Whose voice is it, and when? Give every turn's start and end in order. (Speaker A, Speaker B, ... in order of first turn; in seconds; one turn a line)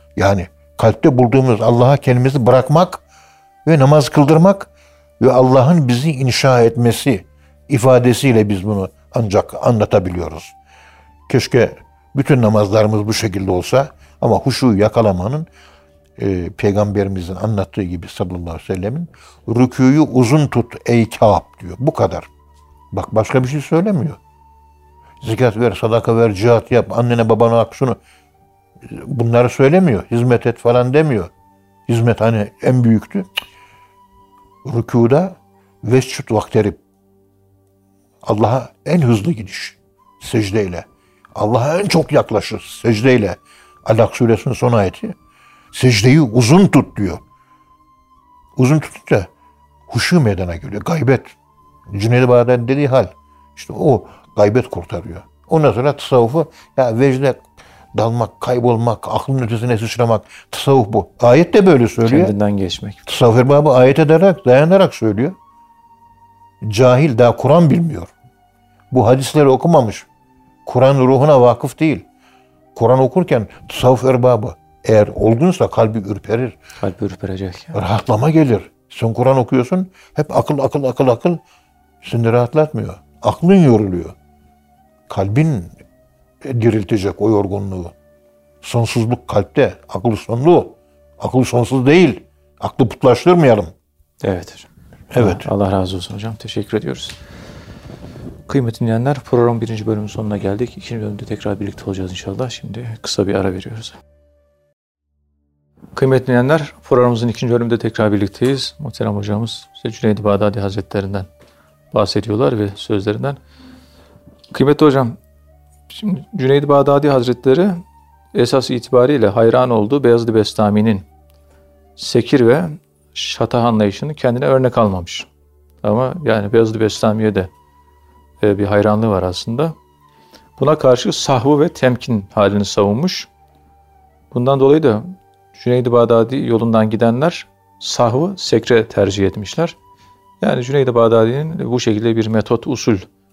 Speaker A: 0.2-3.0
Speaker A: 3.6-10.5
Speaker A: 11.3-15.5
Speaker A: 16.2-22.3
Speaker A: 22.9-24.2
Speaker A: 25.2-28.0
Speaker A: 28.9-31.3
Speaker A: 31.9-33.3
Speaker A: 34.6-36.8
Speaker A: 38.2-45.1
Speaker A: 45.7-47.2
Speaker A: 48.6-49.3
Speaker A: 49.9-51.3
Speaker A: 51.9-57.4
Speaker A: 57.9-62.3
Speaker B: 62.0-63.0
Speaker A: 63.1-65.4
Speaker A: 66.6-68.1
Speaker A: 68.9-70.1
Speaker A: 70.7-72.0
Speaker A: 72.8-76.6
Speaker B: 76.8-77.8
Speaker A: 77.7-81.4
Speaker A: 82.0-84.2
Speaker A: 85.1-85.8
Speaker A: 86.4-87.9
Speaker A: 88.6-93.7
Speaker B: 94.2-97.2
Speaker A: 95.1-95.5
Speaker B: 98.5-104.0
Speaker B: 106.0-111.3
Speaker B: 111.9-113.4
Speaker B: 114.5-115.2
Speaker B: 115.9-117.8
Speaker B: 118.3-121.1
Speaker B: 122.0-125.3
Speaker B: 125.8-127.5
Speaker B: 128.4-129.8
Speaker B: 130.6-133.3
Speaker B: 134.3-139.8
Speaker B: 140.4-143.1